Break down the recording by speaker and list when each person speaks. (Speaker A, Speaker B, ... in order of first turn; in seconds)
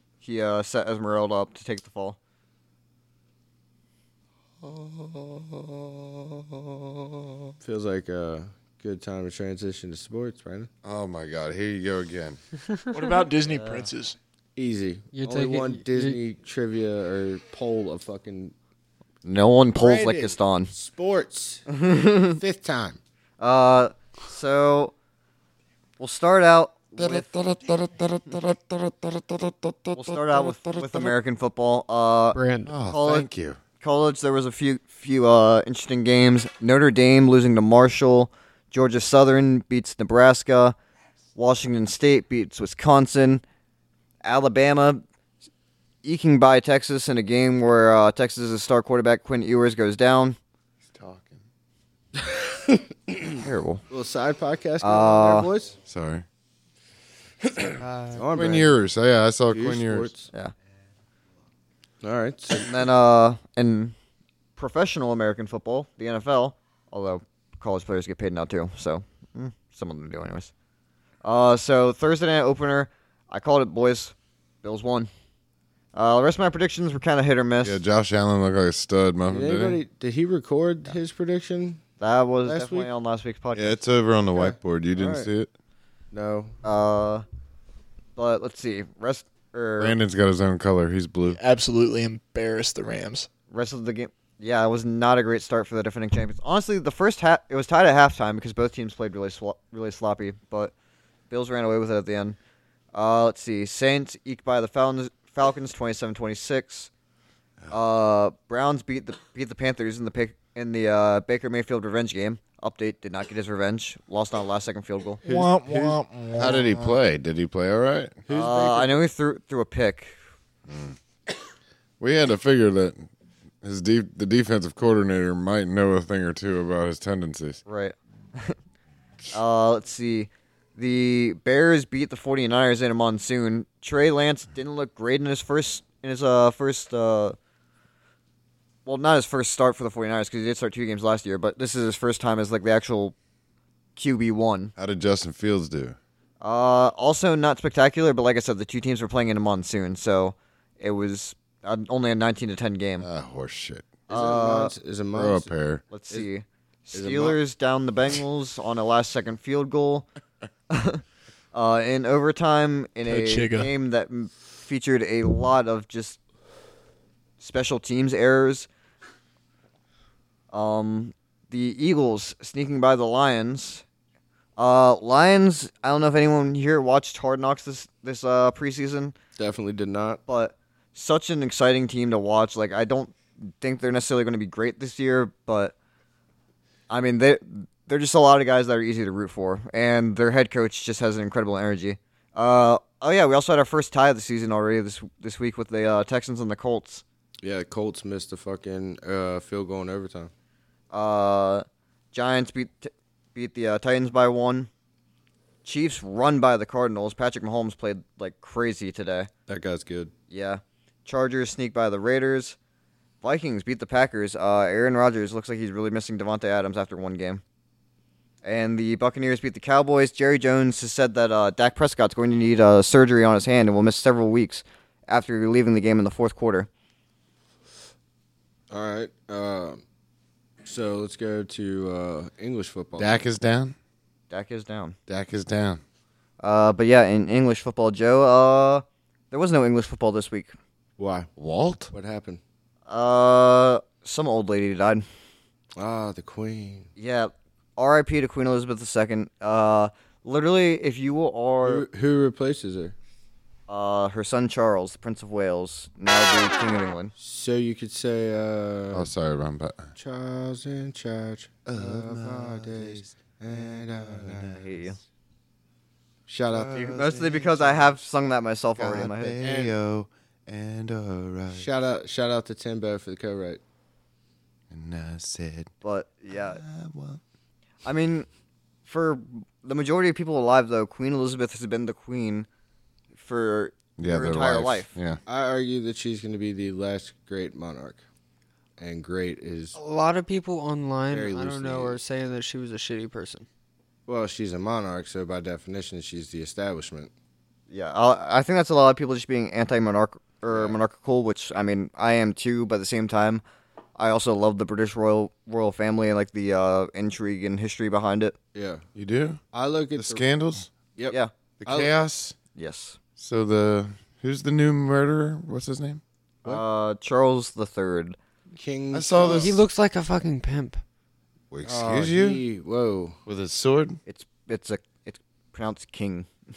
Speaker A: 0.2-2.2, 13.5-13.9, 19.2-20.7, 21.7-22.4, 23.4-24.9, 26.0-27.3, 29.9-32.4, 32.9-33.3, 33.8-40.8, 41.4-43.4, 44.2-45.0, 46.0-50.4, 53.3-53.8, 54.8-55.5, 62.6-63.9, 64.6-70.5, 71.2-75.1, 75.9-77.8, 82.0-83.8, 86.6-87.2, 88.2-90.0, 93.5-100.7, 101.3-102.4, 102.9-106.9, 107.7-115.2, 118.3-120.2, 127.7-128.6, 129.3-137.4, 138.8-143.1, 143.9-144.7, 146.4-153.1, 154.1-154.7, 155.9-160.1, 160.7-161.0, 161.5-166.2, 167.4-168.7, 170.5-173.8, 174.6-179.1, 180.3-185.7, 186.9-197.0, 200.9-204.7, 205.6-209.3, 210.3-212.6, 213.2-217.4, 218.4-226.7, 234.3-234.9, 236.4-240.5, 242.9-245.0, 247.0-251.9, 253.7-257.1, 264.5-265.0, 266.7-269.4, 275.8-276.6, 277.8-278.3, 278.9-282.5, 283.1-284.9, 297.7-303.4, 304.0-308.3, 312.5-313.0, 316.4-318.1, 324.1-326.3
Speaker B: 7.6-10.7, 14.5-18.5, 19.7-21.7, 22.3-23.0, 52.1-55.7, 57.4-58.7, 59.5-60.3, 62.0-62.8, 79.3-81.8, 82.4-82.9, 84.3-85.3, 86.1-86.5, 115.2-116.5, 118.3-119.0, 154.1-155.5, 156.9-157.4, 179.4-180.2, 197.4-200.3, 209.5-210.1, 228.7-229.8, 230.6-233.1, 241.0-241.3, 241.9-242.4, 245.8-246.9, 251.6-252.9, 257.2-259.1, 259.9-264.6, 266.3-267.2, 269.4-269.7, 271.5-273.6, 285.2-288.0, 288.8-289.8, 291.1-292.0, 294.1-297.1, 300.5-300.8, 308.5-308.9, 309.5-310.3, 311.0-311.9, 318.5-319.5, 321.6-323.2
Speaker C: 10.8-12.4, 26.9-31.1, 32.6-33.6, 50.9-51.4, 55.9-56.2, 58.3-60.1, 77.6-79.8, 83.5-85.5, 89.8-91.4, 116.3-118.2, 120.7-121.0, 122.0-123.1, 123.6-127.6, 144.8-145.9, 153.0-153.9, 155.1-155.8, 233.0-233.7, 235.1-235.8, 241.4-241.9, 258.9-259.9, 261.6-264.7, 266.5-267.8, 268.8-271.7, 274.7-275.7, 276.3-277.2, 284.0-285.2, 308.9-309.4, 309.9-310.7, 311.6-312.4, 313.2-316.0, 318.9-319.6, 321.5-322.4, 323.2-324.0
Speaker D: 12.9-14.2, 91.3-93.3, 115.2-116.8, 163.1-163.7
Speaker E: 15.1-16.2, 32.3-32.7, 57.8-58.3, 289.7-293.4, 319.3-320.8